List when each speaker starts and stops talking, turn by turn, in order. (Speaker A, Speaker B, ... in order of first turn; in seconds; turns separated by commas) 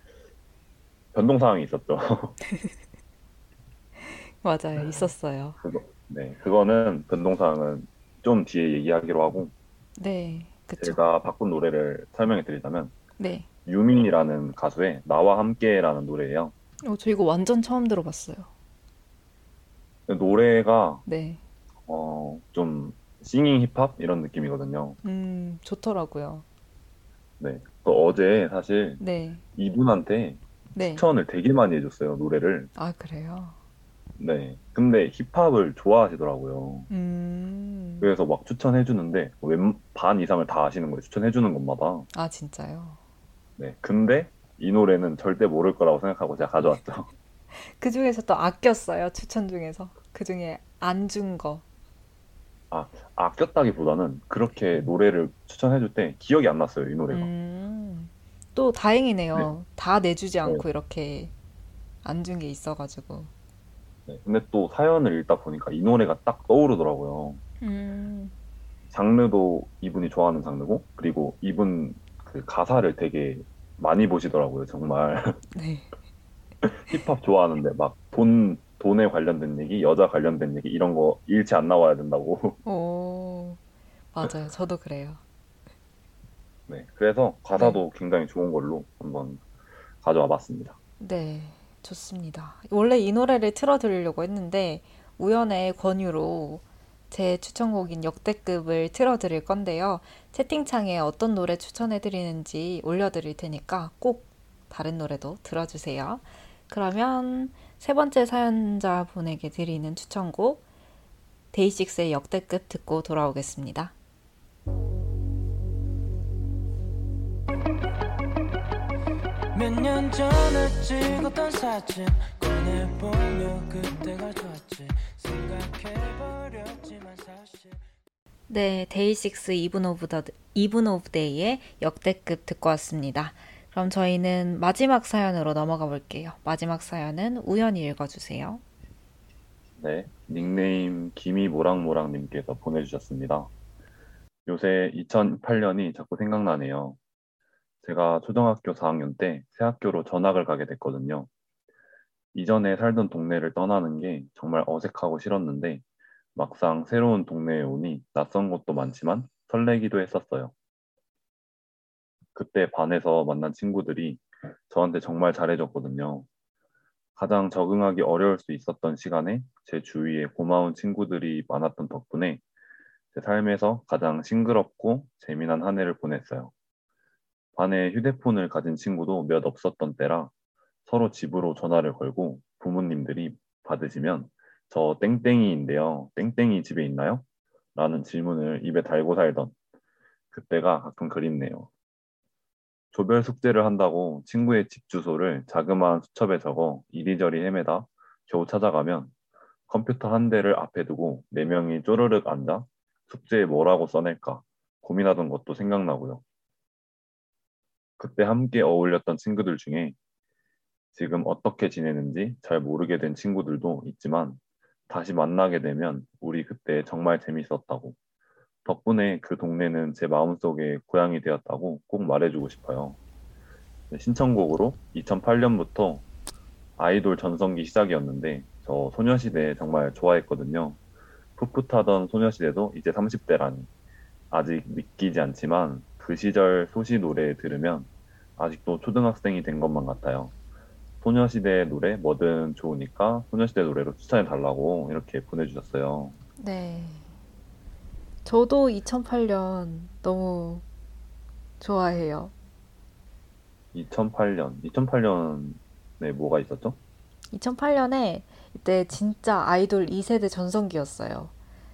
Speaker A: 1.1-2.4, Speaker B: 4.0-5.6, Speaker A: 5.6-9.5, Speaker B: 10.0-11.0, Speaker A: 10.8-12.9, Speaker B: 13.2-13.5, Speaker A: 13.7-16.5, Speaker B: 16.8-18.5, Speaker A: 20.1-21.0, Speaker B: 21.1-21.4, Speaker A: 21.9-25.0, Speaker B: 25.0-26.4, Speaker A: 27.4-29.0, Speaker B: 29.0-29.4, Speaker A: 29.6-30.4, Speaker B: 30.8-31.0, Speaker A: 30.9-32.7, Speaker B: 32.8-33.6, Speaker A: 34.2-36.9, Speaker B: 36.9-38.1, Speaker A: 38.0-42.1, Speaker B: 42.1-43.0, Speaker A: 43.6-47.1, Speaker B: 47.5-51.6, Speaker A: 52.7-57.3, Speaker B: 57.1-61.3, Speaker B: 62.0-63.3, Speaker A: 64.1-67.4, Speaker B: 67.6-68.3, Speaker A: 68.9-75.4, Speaker B: 75.5-75.9, Speaker A: 76.6-82.6, Speaker B: 82.7-83.6, Speaker B: 84.1-85.2, Speaker A: 86.7-89.4, Speaker B: 87.5-87.8, Speaker A: 90.0-90.8, Speaker B: 91.0-110.6, Speaker B: 111.5-113.9, Speaker C: 119.5-127.8, Speaker B: 128.5-138.6, Speaker A: 139.8-143.5, Speaker A: 144.5-147.0, Speaker A: 147.8-151.3, Speaker A: 152.3-155.8, Speaker A: 156.3-160.5, Speaker A: 162.3-166.3, Speaker A: 167.2-172.4, Speaker A: 173.1-176.5, Speaker A: 177.6-180.3, Speaker A: 180.9-189.5, Speaker A: 190.3-191.7, Speaker A: 192.9-199.1, Speaker A: 199.7-206.2, Speaker A: 208.0-210.0, Speaker A: 210.9-218.0, Speaker A: 218.7-223.0, Speaker A: 223.9-226.0, Speaker A: 226.8-230.8, Speaker A: 231.4-233.7, Speaker A: 234.3-240.3, Speaker A: 241.0-246.2, Speaker B: 246.4-247.1, Speaker B: 248.2-250.6, Speaker B: 251.6-252.3, Speaker A: 253.7-256.8, Speaker B: 257.3-261.3